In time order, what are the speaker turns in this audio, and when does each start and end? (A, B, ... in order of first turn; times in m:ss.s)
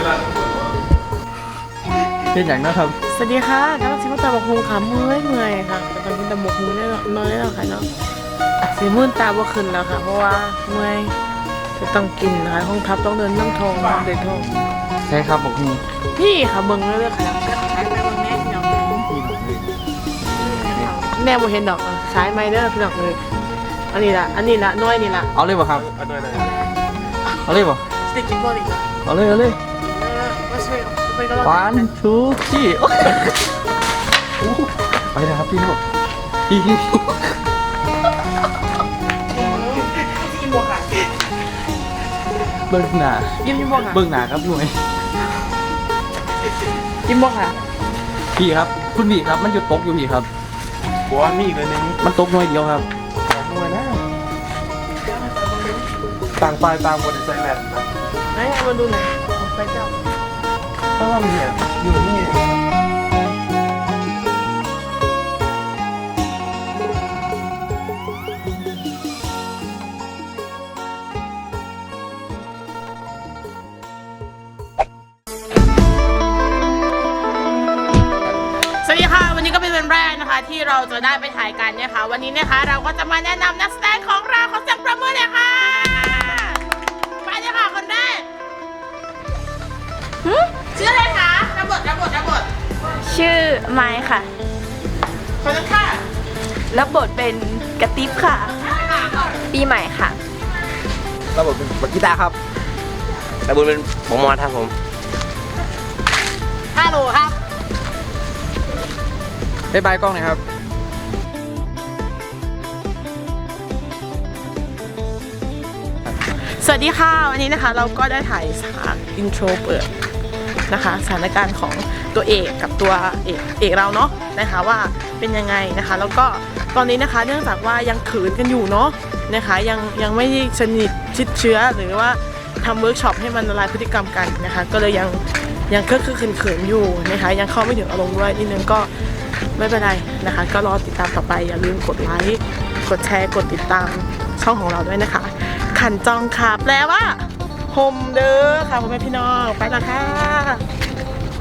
0:02.3-0:03.0 A
0:03.0-0:07.9 B
0:08.6-0:11.2 B
0:11.8-0:14.5 B
0:15.1-0:15.8 A
0:16.1-0:19.0 B
0:18.9-0:19.6 A
0:20.2-0:20.9 A
0:20.4-0:23.2 B
0:23.9-0:25.3 B
0:25.3-0:25.8 A
0:25.7-0:26.5 C
0:27.4-0:27.8 A
0:28.0-0:28.8 B
0:29.0-0:29.6 A
0:29.8-0:31.9 B
0:31.4-0:33.4 A
0:34.4-0:35.8 A
0:36.5-0:37.3 A
0:39.3-0:41.0 B
0:42.7-0:44.8 A
0:43.4-0:44.0 B
0:47.0-0:47.6 B
0:48.3-0:50.3 A
0:51.1-0:52.0 C
0:52.0-0:52.9 A
0:53.3-0:54.0 C
0:56.4-0:57.9 C
0:58.3-0:59.9 B
1:01.0-1:02.4 C
1:18.8-1:26.6 B
1:27.2-1:28.3 B
1:30.2-1:30.5 D
1:30.7-1:32.5 B
1:33.0-1:34.3 D
1:35.4-1:36.0 B
1:36.7-1:38.6 D
1:39.5-1:40.2 D
1:41.4-1:42.3 E
1:43.4-1:44.7 E
1:46.8-1:47.3 B
1:49.7-1:50.4 A
1:56.4-1:59.9 B
2:00.7-2:18.9 B
2:19.6-2:30.6 B